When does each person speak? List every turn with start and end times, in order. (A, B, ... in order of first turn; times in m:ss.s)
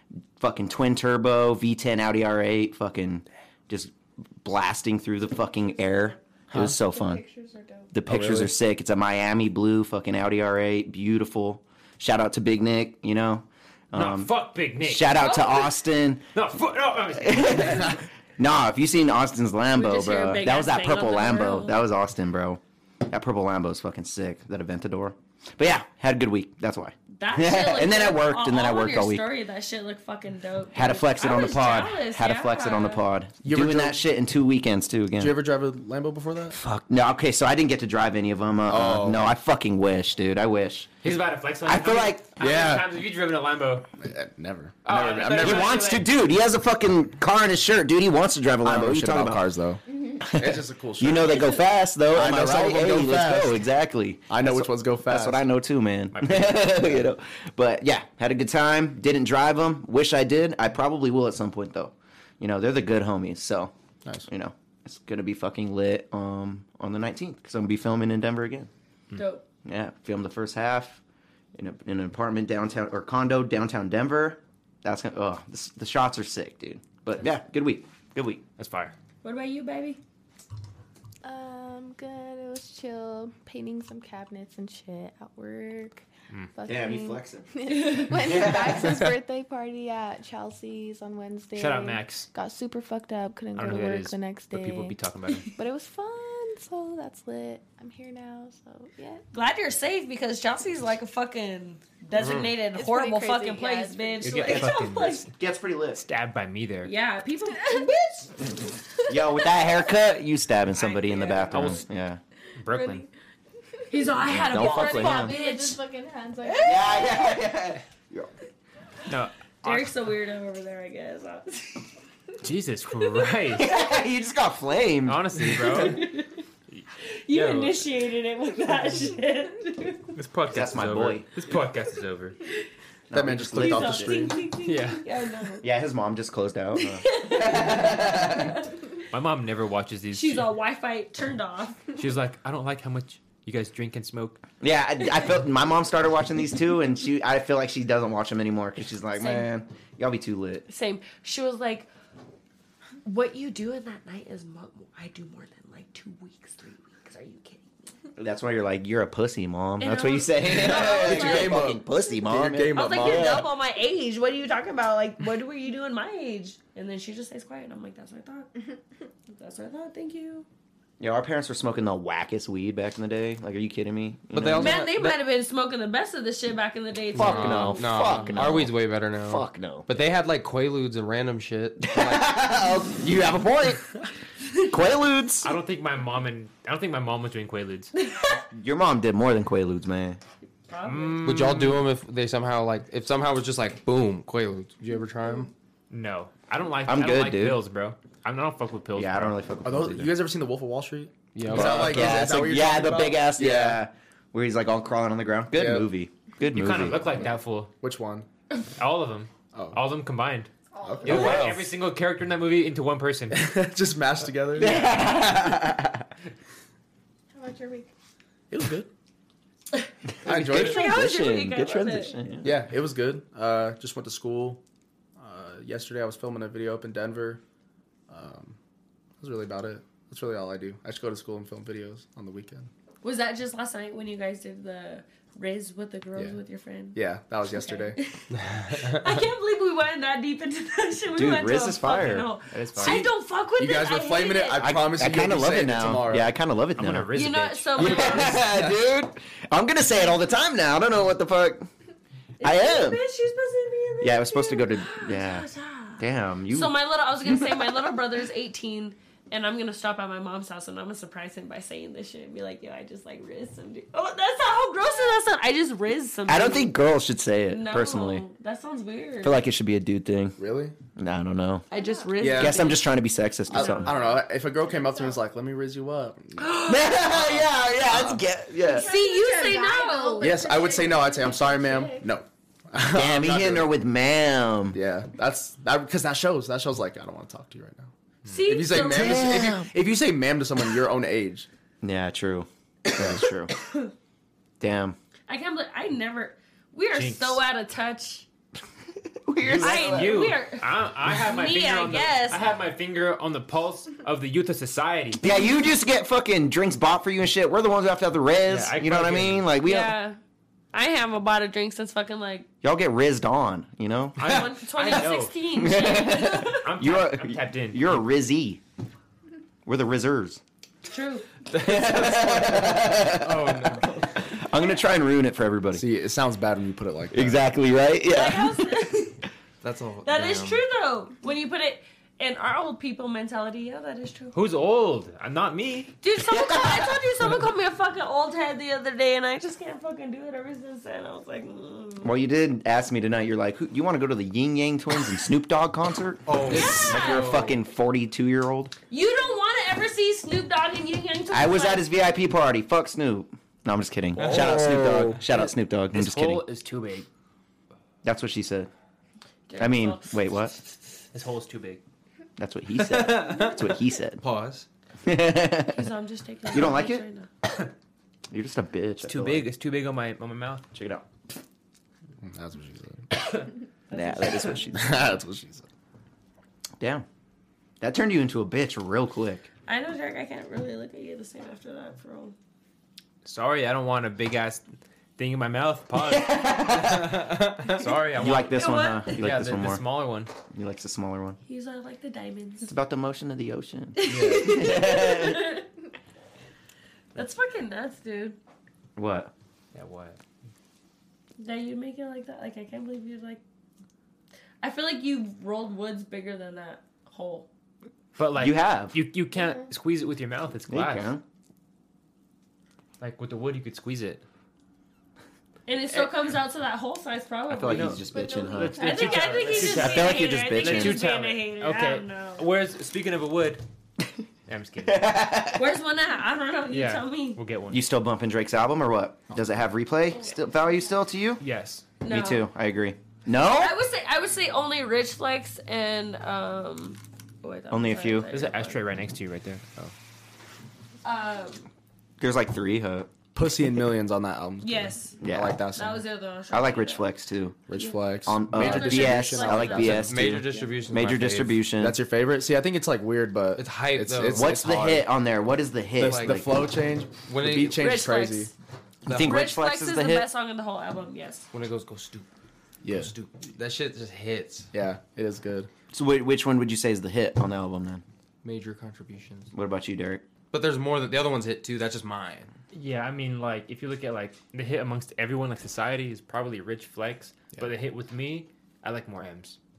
0:00.4-0:07.2 A
0:06.7-0:07.9 B
0:07.9-0:16.2 A
0:08.1-0:08.5 C
0:13.9-0:15.5 D
0:15.2-0:15.6 E
0:16.3-0:18.0 D
0:17.2-0:29.3 A
0:19.8-0:21.8 E
0:27.2-0:33.0 E
0:30.7-0:35.4 A
0:33.4-0:34.0 F
0:35.2-0:36.6 F
0:36.5-0:41.0 A
0:38.7-0:39.3 F
0:41.0-0:43.9 D
0:41.6-0:42.3 A
0:42.4-0:42.9 F
0:44.0-0:45.8 F
0:44.8-0:46.1 D
0:45.4-0:49.5 A
0:48.6-0:51.6 F
0:50.2-1:03.7 A
0:52.1-0:53.6 F
0:54.3-0:55.4 F
0:56.1-0:56.9 D
1:04.3-1:08.7 A
1:09.1-1:09.4 E
1:09.6-1:11.0 A
1:11.6-1:18.4 A
1:18.6-1:18.9 D
1:19.2-1:20.0 E
1:21.2-1:39.2 B
1:26.7-1:29.0 A
1:31.6-1:32.3 D
1:33.6-1:35.5 D
1:39.3-1:45.3 E
1:42.2-1:42.5 C
1:42.6-1:44.6 B
1:44.2-1:45.3 D
1:44.5-1:44.8 A
1:45.3-1:46.1 A
1:46.0-1:46.9 D
1:46.8-1:48.3 E
1:47.5-1:48.5 B
1:49.1-1:52.2 A
1:49.1-1:49.7 B
1:50.7-1:51.8 E
1:51.5-1:51.8 D
1:52.6-1:53.1 D
1:52.7-1:53.0 B
1:53.9-1:55.8 E
1:54.1-1:57.4 B
1:54.3-1:55.4 A
1:56.5-1:57.1 E
1:56.6-1:58.3 A
1:59.1-1:59.9 D
1:59.6-2:01.9 E
2:02.4-2:03.7 D
2:03.5-2:05.7 A
2:05.0-2:06.1 D
2:05.6-2:06.4 E
2:06.7-2:07.8 D
2:07.0-2:10.1 E
2:10.2-2:12.4 D
2:10.5-2:11.3 A
2:13.1-2:14.4 A
2:13.1-2:14.5 F
2:13.6-2:15.7 E
2:14.6-2:15.0 D
2:15.6-2:18.6 A
2:16.8-2:18.7 E
2:19.1-2:20.5 D
2:20.1-2:21.8 E
2:22.0-2:24.4 D
2:24.6-2:30.7 A
2:29.2-2:29.5 E
2:30.7-2:31.9 E
2:33.0-2:37.7 E
2:38.2-2:43.5 A
2:39.8-2:41.6 E
2:40.5-2:43.5 F
2:42.7-2:48.5 E
2:49.3-2:50.5 E
2:51.0-2:54.9 A
2:54.3-2:55.2 C
2:54.6-2:58.3 E
2:57.2-3:00.0 A
2:57.2-3:02.3 C
3:01.8-3:04.0 A
3:04.6-3:05.6 A
3:05.4-3:07.9 D
3:08.0-3:08.4 E
3:08.5-3:10.2 A
3:10.7-3:11.4 E
3:10.8-3:11.8 D
3:11.2-3:15.5 C
3:15.9-3:19.4 D
3:16.9-3:17.6 A
3:19.0-3:20.2 A
3:19.6-3:23.8 F
3:21.3-3:22.2 C
3:21.5-3:27.3 A
3:25.5-3:25.9 F
3:26.5-3:27.7 D
3:27.8-3:28.3 F
3:28.8-3:30.5 D
3:30.7-3:31.1 B
3:30.8-3:31.5 F
3:31.0-3:33.5 D
3:31.0-3:31.6 A
3:33.3-3:35.1 F
3:34.6-3:36.1 A
3:37.3-3:37.9 B
3:38.5-3:38.9 F
3:39.8-3:42.2 E
3:40.2-3:42.6 A
3:40.2-3:40.9 F
3:42.4-3:44.6 F
3:45.2-3:47.4 F
3:48.1-3:48.6 F
3:49.2-3:52.7 F
3:53.0-4:04.7 E
3:57.0-3:58.0 F
3:58.4-3:58.9 C
4:01.1-4:02.3 A
4:02.5-4:03.1 D
4:03.6-4:06.3 F
4:04.6-4:07.1 A
4:06.8-4:08.3 D
4:07.2-4:08.6 E
4:07.8-4:11.7 A
4:08.3-4:08.7 F
4:12.4-4:26.8 E
4:12.4-4:13.0 A
4:14.0-4:15.5 A
4:16.0-4:16.8 A
4:26.3-4:28.3 A
4:27.5-4:29.4 E
4:29.2-4:30.4 A
4:30.4-4:30.8 F
4:31.0-4:31.7 A
4:31.7-4:32.9 E
4:31.8-4:32.1 B
4:32.2-4:32.8 F
4:32.2-4:34.0 A
4:33.5-4:38.2 F
4:33.5-4:34.2 E
4:34.7-4:35.2 B
4:36.4-4:37.1 E
4:36.7-4:38.9 A
4:38.6-4:42.1 B
4:38.8-4:40.5 E
4:40.2-4:43.7 F
4:42.9-4:44.8 A
4:44.7-4:51.5 F
4:48.3-4:49.6 E
4:48.7-4:49.7 A
4:51.8-4:53.5 A
4:53.0-4:53.3 F
4:54.6-4:55.0 A
4:55.3-4:58.3 E
4:56.9-4:57.4 D
4:59.2-5:00.3 A
4:59.4-5:05.2 D
4:59.6-5:02.4 E
5:05.2-5:10.0 A
5:08.5-5:09.5 D
5:09.6-5:10.2 E
5:10.7-5:12.5 E
5:12.6-5:14.4 A
5:14.2-5:16.0 D
5:14.2-5:16.7 E
5:15.5-5:18.6 A
5:16.5-5:18.0 D
5:19.7-5:20.4 A
5:20.9-5:21.3 E
5:21.5-5:22.8 C
5:21.6-5:25.8 A
5:23.3-5:23.9 D
5:25.7-5:27.4 F
5:27.1-5:28.8 A
5:28.1-5:29.2 E
5:29.6-5:30.6 C
5:30.0-5:34.4 E
5:34.3-5:36.0 D
5:36.0-5:42.1 E
5:36.3-5:37.0 A
5:42.0-5:48.7 A
5:46.3-5:47.6 C
5:46.5-5:47.5 E
5:48.9-5:51.9 E
5:51.3-5:56.4 A
5:54.2-5:55.2 C
5:55.9-5:57.1 D
5:58.0-5:58.7 A
5:59.5-6:00.2 E
5:59.6-6:00.6 A
6:01.1-6:01.8 D
6:02.4-6:04.2 A
6:02.8-6:04.7 C
6:05.0-6:05.9 A
6:05.7-6:07.3 E
6:06.5-6:07.0 A
6:08.3-6:09.5 A
6:09.0-6:10.7 D
6:10.7-6:11.0 A
6:12.2-6:13.0 F
6:13.9-6:15.0 E
6:13.9-6:14.9 A
6:14.7-6:15.7 F
6:16.8-6:17.0 A
6:17.8-6:19.5 A
6:19.7-6:22.4 E
6:23.2-6:24.6 D
6:25.2-6:30.3 D
6:26.0-6:27.3 A
6:28.1-6:29.8 A
6:28.5-6:29.3 E
6:30.5-6:31.4 A
6:31.5-6:32.7 E
6:32.6-6:35.6 A
6:34.0-6:35.7 E
6:34.1-6:34.5 F
6:37.2-6:38.4 E
6:39.0-6:39.3 A
6:39.7-6:40.2 D
6:41.4-6:43.4 E
6:44.6-6:47.5 E
6:48.2-6:51.1 D
6:48.4-6:49.0 A
6:50.7-6:51.2 A
6:53.0-6:54.2 D
6:55.7-6:58.0 E
6:57.5-7:01.0 A
6:57.7-7:03.6 D
6:58.0-6:59.6 B
6:58.8-7:02.5 E
7:04.5-7:05.1 D
7:04.9-7:05.7 A
7:05.5-7:07.4 E
7:06.7-7:07.8 D
7:07.7-7:11.4 A
7:11.4-7:11.9 D
7:12.0-7:12.5 E
7:12.1-7:13.8 A
7:13.4-7:18.8 E
7:17.7-7:18.3 A
7:18.3-7:19.7 D
7:21.0-7:21.7 E
7:22.2-7:23.1 A
7:23.4-7:26.0 F
7:24.6-7:25.2 E
7:25.2-7:25.6 A
7:25.7-7:27.1 E
7:26.5-7:27.6 A
7:27.7-7:30.4 F
7:27.8-7:28.0 E
7:28.2-7:32.0 A
7:28.5-7:30.7 E
7:29.9-7:31.6 C
7:31.8-7:35.1 F
7:33.6-7:34.5 C
7:34.3-7:36.6 A
7:36.0-7:38.5 F
7:36.0-7:36.5 C
7:37.2-7:37.8 C
7:37.8-7:38.5 E
7:39.1-7:40.3 A
7:39.1-7:41.5 E
7:41.5-7:42.3 C
7:42.8-7:43.1 F
7:42.9-7:44.7 C
7:44.7-7:45.7 F
7:45.9-7:48.0 A
7:48.4-7:49.5 C
7:49.5-7:50.2 A
7:50.5-7:52.5 C
7:52.7-7:59.6 D